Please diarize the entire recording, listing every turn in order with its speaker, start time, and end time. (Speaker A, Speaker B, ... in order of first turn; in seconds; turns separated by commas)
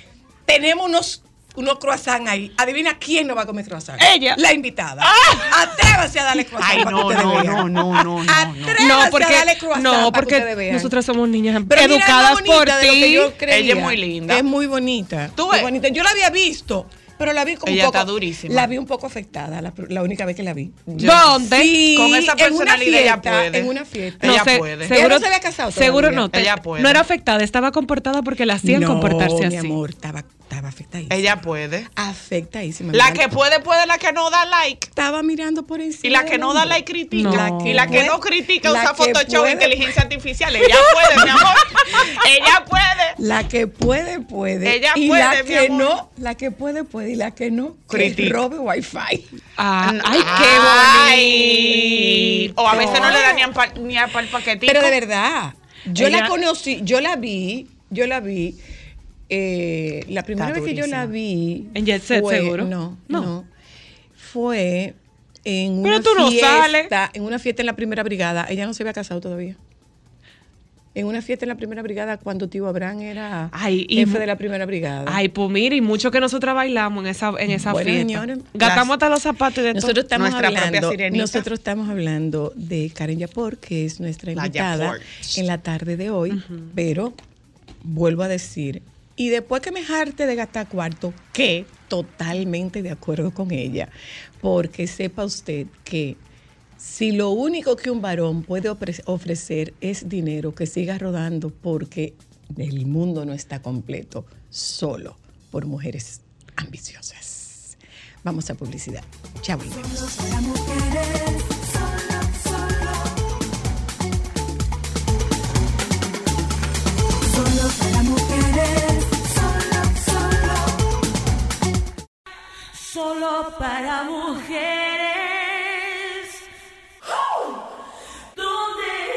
Speaker A: 0.5-10.9, Speaker B: 4.0-4.4, Speaker C: 5.0-5.5, Speaker C: 6.6-8.8, Speaker B: 8.8-13.3, Speaker A: 11.6-26.3, Speaker C: 13.5-14.4, Speaker C: 15.3-15.7, Speaker C: 17.6-18.7, Speaker C: 20.9-25.0, Speaker B: 21.0-21.8, Speaker B: 24.2-29.8, Speaker C: 26.3-27.0, Speaker A: 28.6-31.4, Speaker C: 31.1-31.9, Speaker A: 31.9-33.2, Speaker C: 32.9-34.9, Speaker A: 34.9-40.0, Speaker C: 36.0-43.2, Speaker B: 37.1-38.1, Speaker A: 40.6-42.0, Speaker A: 43.2-49.4, Speaker C: 44.6-46.0, Speaker C: 47.9-48.4, Speaker B: 49.6-53.2, Speaker C: 49.8-55.0, Speaker A: 50.5-50.8, Speaker A: 51.4-53.5, Speaker A: 54.6-58.6, Speaker B: 56.0-56.3, Speaker A: 59.3-63.5, Speaker C: 60.4-61.1, Speaker B: 61.7-63.3, Speaker A: 64.2-69.6, Speaker B: 65.8-66.9, Speaker A: 70.9-75.2, Speaker B: 73.5-74.2, Speaker B: 75.0-80.0, Speaker A: 77.5-78.5, Speaker C: 78.6-78.9, Speaker A: 79.7-87.2, Speaker C: 80.1-81.5, Speaker C: 84.3-85.3, Speaker B: 86.3-86.7, Speaker A: 87.8-93.9, Speaker A: 94.4-96.2, Speaker A: 96.8-110.4, Speaker D: 110.4-111.5, Speaker D: 117.4-119.2, Speaker B: 123.0-125.2